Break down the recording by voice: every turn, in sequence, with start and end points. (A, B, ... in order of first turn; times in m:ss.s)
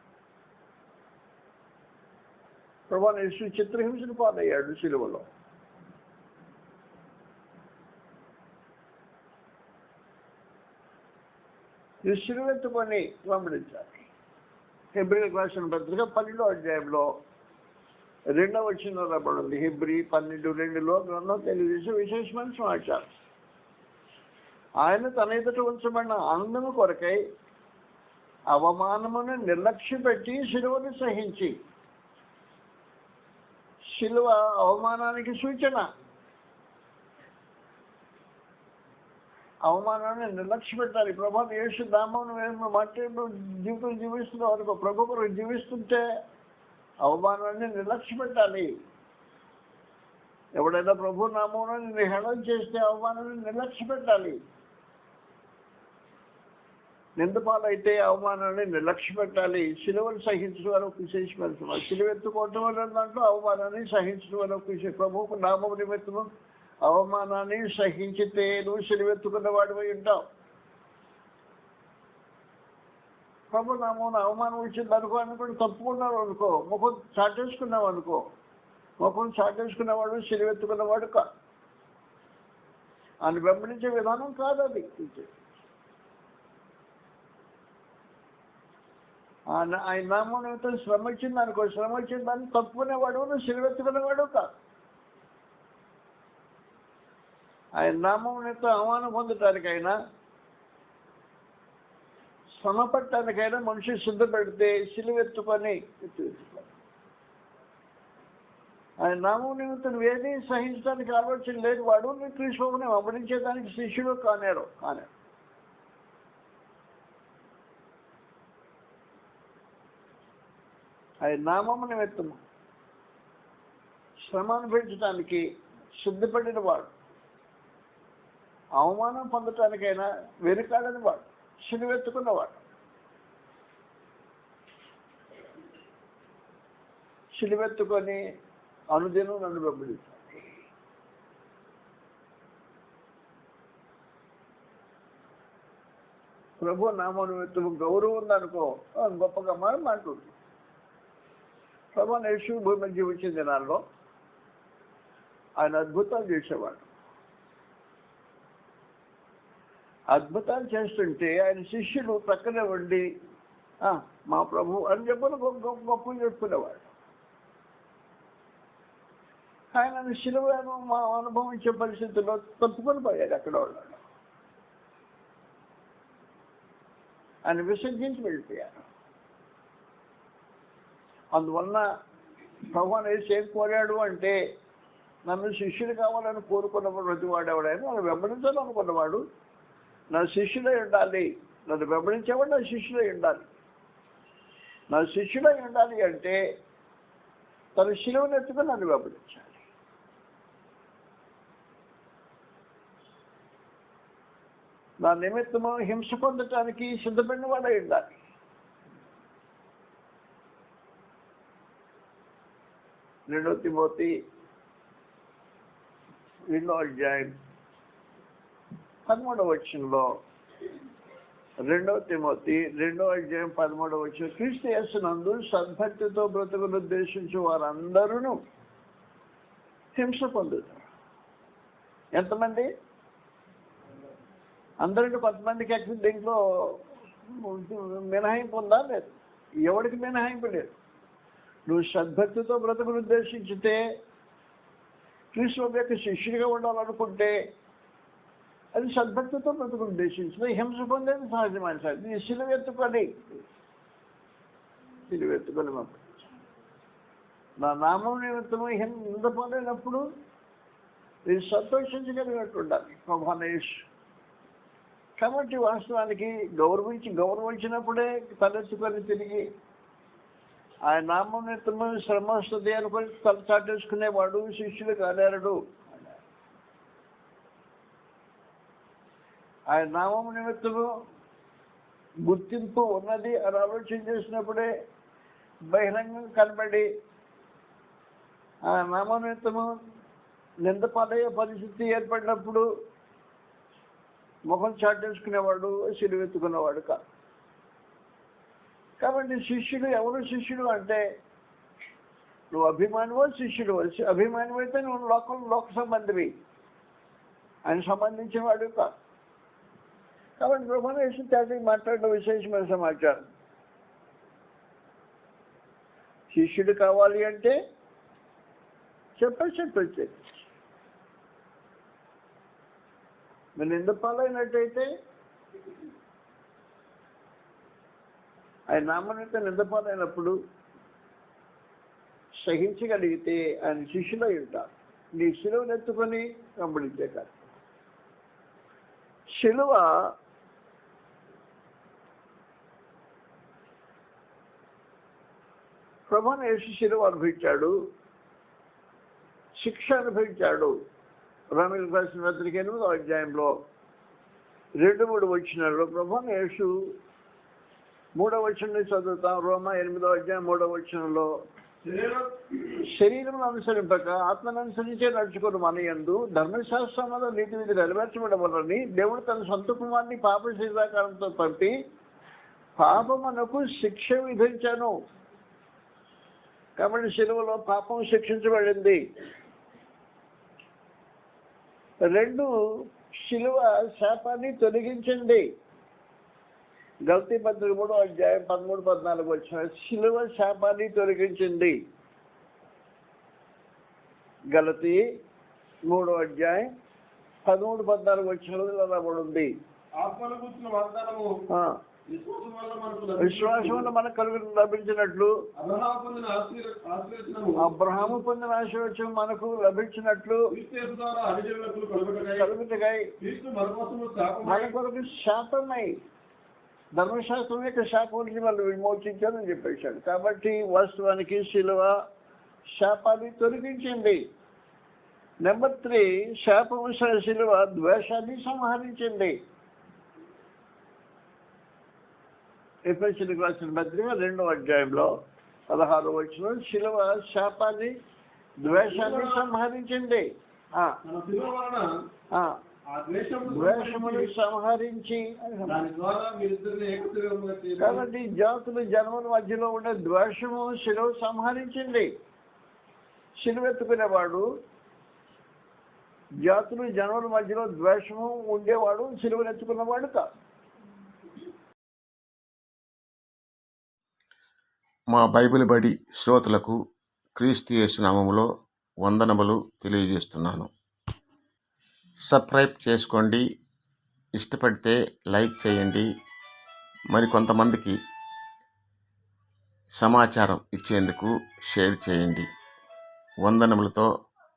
0:02.9-0:05.2 A
0:12.0-0:14.0 A
0:14.9-0:17.1 A
0:18.4-0:23.1 A
0:24.8-0:27.2 A
0:28.5-0:31.5 A
0:33.9-0:35.8 A
0:39.6-0:46.0 A
0:47.0-0:48.7 A
0:50.6-0:54.4 A
0:57.2-1:06.3 A
1:06.8-1:10.2 A
1:13.5-1:18.2 A
1:19.0-1:21.2 A
1:23.2-1:25.3 A
1:29.5-1:34.5 A
1:37.8-1:39.9 A
1:42.6-1:46.7 A
1:49.0-1:55.1 A
2:01.2-2:02.4 A
2:04.3-2:05.4 A
2:06.0-2:06.9 A
2:08.8-2:12.6 A
2:17.4-2:18.2 A
2:18.9-2:20.4 A
2:26.6-2:30.3 A
2:31.9-2:33.8 A
2:35.6-2:36.9 A
2:40.1-2:43.0 A
2:43.8-2:46.9 A
2:49.7-2:54.0 A
2:57.4-2:58.8 A
3:01.3-3:01.8 A
3:02.7-3:04.4 A
3:05.2-3:09.2 A
3:10.1-3:13.5 A
3:14.9-3:16.4 A
3:17.8-3:19.6 A
3:25.0-3:28.2 A
3:33.3-3:34.1 A
3:36.5-3:37.3 A
3:39.1-3:40.2 A
3:41.7-3:48.4 A
3:49.9-3:50.8 A
3:52.1-3:52.7 A
3:54.8-3:59.1 A
3:59.6-4:00.7 A
4:01.7-4:03.8 A
4:05.3-4:07.4 A
4:08.7-4:13.4 A
4:15.1-4:16.2 A
4:17.6-4:20.0 A
4:21.3-4:23.7 A
4:25.2-4:29.4 A
4:30.9-4:36.1 A
4:39.7-4:40.9 A
4:42.2-4:44.7 A
4:45.7-4:46.9 A
4:48.7-4:49.7 A
4:50.6-4:52.6 A
4:54.5-4:57.0 A
4:59.0-5:01.0 A
5:02.5-5:06.3 A
5:07.6-5:08.9 A
5:10.4-5:13.2 A
5:16.3-5:17.6 A
5:19.2-5:20.3 A
5:23.6-5:24.9 A
5:28.7-5:30.3 A
5:32.4-5:37.4 A
5:39.4-5:39.9 A
5:46.1-5:47.7 A
5:49.6-5:50.7 A
5:51.6-5:53.5 A
5:54.8-5:56.7 A
5:58.2-6:01.3 A
6:01.8-6:02.3 B
6:02.9-6:11.7 A
6:12.8-6:14.9 A
6:16.8-6:19.0 A
6:22.1-6:22.5 A
6:23.2-6:25.4 A
6:27.1-6:31.8 A
6:34.5-6:35.0 A
6:35.9-6:36.7 A
6:37.4-6:39.5 A
6:40.0-6:41.3 B
6:41.5-6:41.8 A
6:42.1-6:43.9 B
6:43.2-6:45.3 A
6:45.6-6:48.1 B
6:47.6-6:50.4 A
6:50.5-6:52.5 B
6:52.3-6:53.1 A
6:53.2-6:54.7 B
6:54.4-6:56.0 A
6:57.0-7:01.9 A
7:02.8-7:04.2 A
7:05.4-7:09.3 A
7:12.9-7:15.1 A
7:15.7-7:17.9 A
7:18.6-7:20.2 A
7:18.7-7:19.4 B
7:21.0-7:21.8 B
7:22.9-7:24.3 B
7:23.5-7:25.7 A
7:25.7-7:28.0 B
7:27.8-7:32.1 A
7:33.4-7:34.4 A
7:36.4-7:40.3 A
7:45.1-7:46.8 C
7:47.3-7:48.5 C
7:49.0-7:50.7 C
7:52.3-7:53.4 C
7:54.4-7:56.1 C
7:57.1-7:58.0 C
8:00.0-8:02.5 C
8:03.4-8:04.1 C